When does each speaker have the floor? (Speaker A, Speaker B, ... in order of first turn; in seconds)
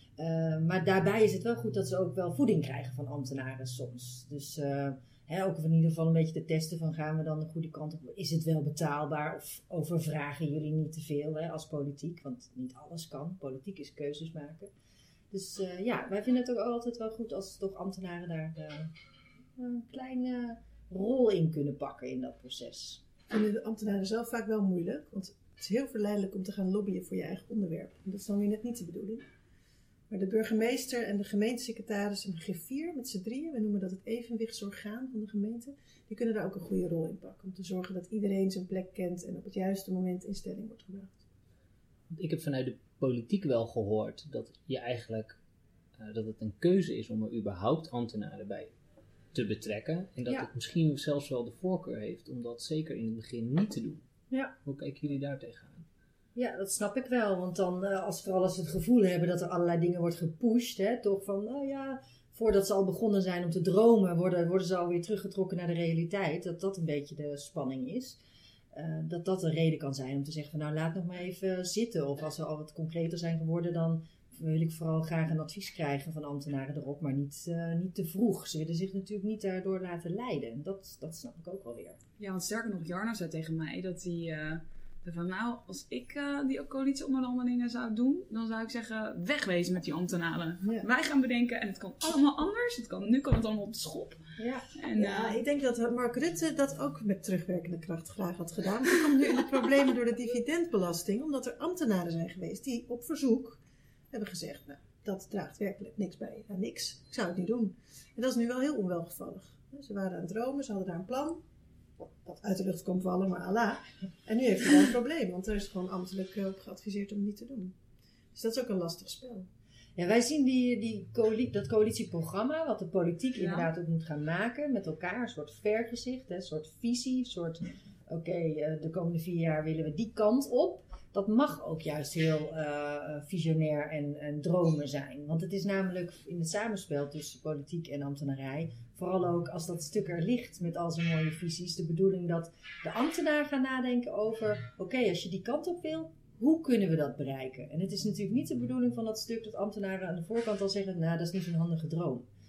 Speaker A: 0.2-14.7, 15.3-18.9, 19.6-23.0, 56.3-68.2, 68.7-82.0, 94.4-94.7, 120.0-152.2
Speaker B: 23.3-29.2, 30.1-41.1, 95.0-103.6, 104.1-111.4, 112.0-117.8, 118.3-119.5
Speaker C: 42.1-45.4, 46.0-48.7, 49.3-54.0, 54.6-55.8
Speaker D: 82.2-94.2, 94.8-95.4, 123.4-123.7